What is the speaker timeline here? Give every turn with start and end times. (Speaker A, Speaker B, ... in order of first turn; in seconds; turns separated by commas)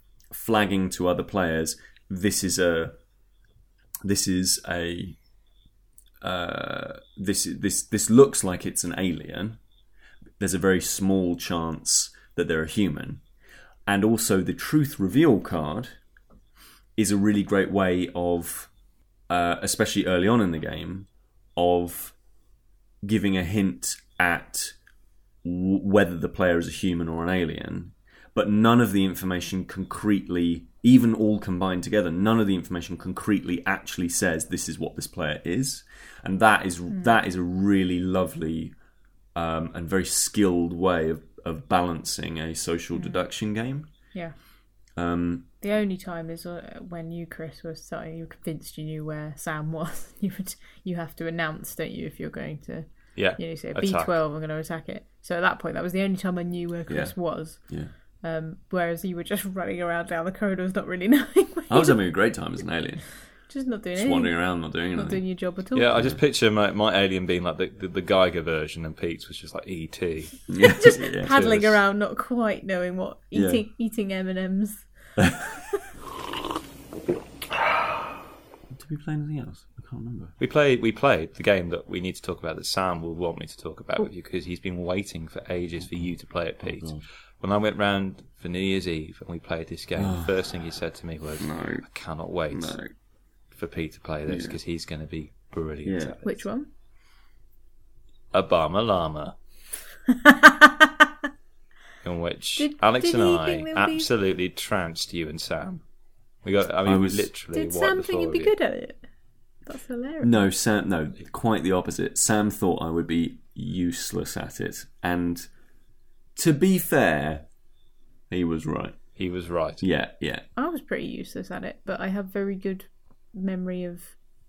Speaker A: 0.3-3.0, Speaker A: 4.0-5.2, Speaker A: 6.2-9.6, Speaker A: 10.4-13.2, Speaker A: 13.9-16.0, Speaker A: 17.0-18.7, Speaker A: 19.3-22.1, Speaker A: 23.0-24.8, Speaker A: 25.4-38.7, Speaker A: 39.3-43.9, Speaker B: 42.9-43.2, Speaker A: 45.0-45.5, Speaker B: 45.6-57.6, Speaker C: 53.1-54.1, Speaker A: 56.9-57.9, Speaker B: 58.2-62.0, Speaker A: 61.7-63.0, Speaker B: 63.5-65.9, Speaker A: 63.9-65.2, Speaker C: 65.7-70.4, Speaker A: 70.5-71.3, Speaker B: 70.6-74.9, Speaker C: 71.2-71.8, Speaker A: 73.3-73.6, Speaker A: 78.7-80.3, Speaker C: 80.4-92.8, Speaker A: 86.6-87.0, Speaker A: 90.0-90.3, Speaker A: 91.4-91.8, Speaker A: 92.5-92.9, Speaker C: 93.5-96.4, Speaker A: 94.3-94.6, Speaker A: 95.8-96.2, Speaker B: 96.2-96.7, Speaker C: 98.3-99.3, Speaker B: 100.1-101.0, Speaker C: 102.0-105.8, Speaker B: 102.6-104.1, Speaker C: 106.4-108.5, Speaker A: 106.8-107.3, Speaker B: 107.5-109.0, Speaker B: 109.7-110.4, Speaker A: 110.2-115.5, Speaker A: 116.3-117.5, Speaker A: 118.3-119.0, Speaker C: 119.2-119.8, Speaker A: 119.8-120.4, Speaker B: 120.5-124.1